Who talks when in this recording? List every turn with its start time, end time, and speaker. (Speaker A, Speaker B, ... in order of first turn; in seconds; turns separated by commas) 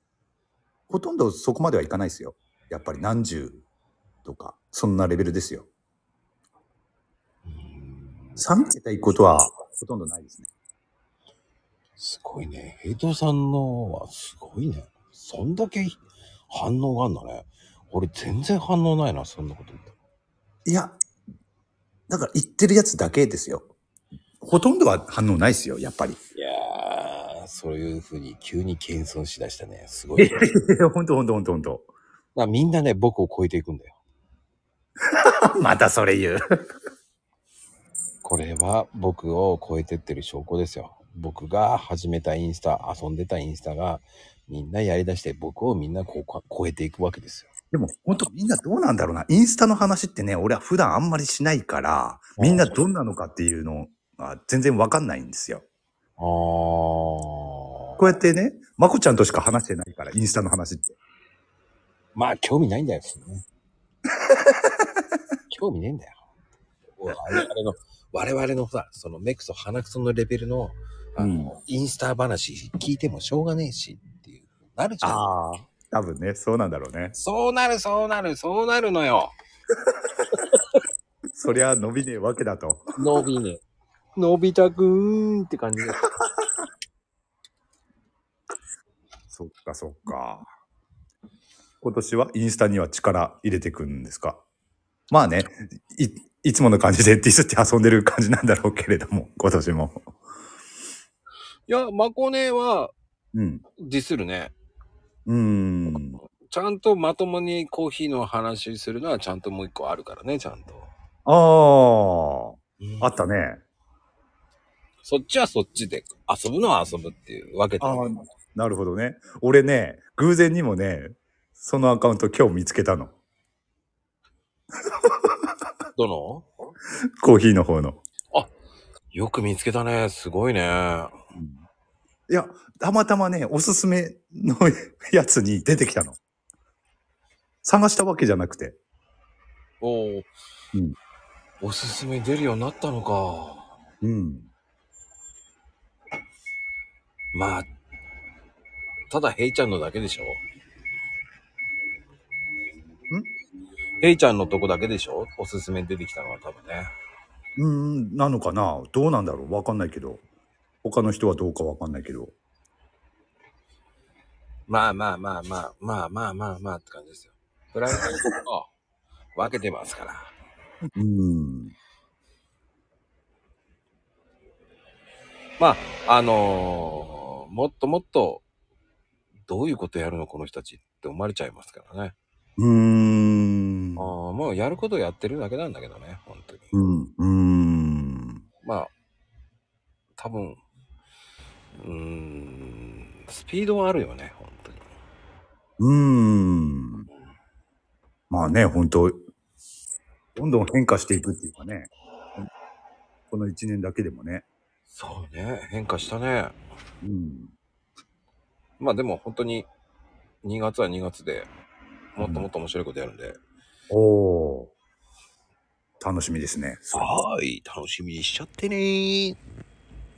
Speaker A: 0.9-3.6, Speaker A: 4.2-5.7, Speaker B: 7.5-8.4, Speaker A: 8.4-10.5, Speaker B: 12.0-19.9, Speaker A: 20.6-21.0, Speaker A: 22.1-23.7, Speaker A: 24.4-26.2, Speaker B: 26.4-30.5, Speaker A: 30.2-31.9, Speaker B: 32.3-34.0, Speaker A: 35.2-36.4, Speaker B: 38.2-47.5, Speaker A: 47.7-55.6, Speaker B: 52.4-52.8, Speaker B: 56.2-58.0, Speaker A: 58.0-61.0, Speaker B: 62.1-63.4, Speaker A: 64.3-64.8, Speaker B: 65.5-66.2, Speaker B: 67.0-75.3, Speaker A: 71.2-71.5, Speaker A: 75.0-77.2, Speaker B: 77.1-79.3, Speaker B: 80.3-80.6, Speaker A: 81.3-82.8, Speaker B: 83.0-83.6, Speaker B: 84.2-86.0, Speaker A: 89.3-90.5, Speaker A: 91.8-94.4, Speaker A: 95.1-100.1, Speaker B: 101.7-102.9, Speaker A: 103.3-103.6, Speaker B: 103.8-104.5, Speaker A: 105.2-106.2, Speaker B: 105.9-110.9, Speaker A: 111.2-113.6, Speaker B: 112.8-113.2, Speaker B: 115.0-118.2, Speaker A: 117.8-123.1, Speaker A: 124.9-125.3, Speaker B: 125.9-126.5, Speaker A: 127.2-128.0, Speaker B: 129.1-131.1, Speaker A: 131.3-131.6, Speaker A: 132.3-136.2, Speaker A: 137.6-138.8, Speaker B: 139.8-140.3, Speaker B: 141.6-143.7, Speaker A: 144.0-144.5, Speaker B: 147.3-147.7, Speaker B: 149.1-150.4, Speaker B: 154.0-156.9, Speaker A: 157.6-160.2, Speaker A: 160.8-162.3, Speaker B: 164.7-168.7, Speaker B: 169.3-170.3, Speaker A: 170.9-171.7, Speaker B: 175.6-178.4, Speaker B: 179.5-182.2, Speaker A: 182.6-184.1, Speaker B: 184.0-186.7, Speaker A: 186.7-188.4, Speaker B: 188.6-188.9, Speaker B: 190.2-190.6, Speaker B: 191.8-194.9, Speaker A: 195.8-197.1, Speaker A: 198.3-199.2, Speaker A: 200.3-202.4, Speaker A: 203.3-204.4, Speaker B: 204.9-206.6, Speaker A: 207.0-207.5, Speaker B: 208.8-209.7, Speaker B: 210.4-211.5, Speaker B: 212.1-213.4, Speaker A: 212.2-212.5, Speaker A: 213.9-214.7, Speaker A: 216.0-217.2, Speaker B: 216.9-219.4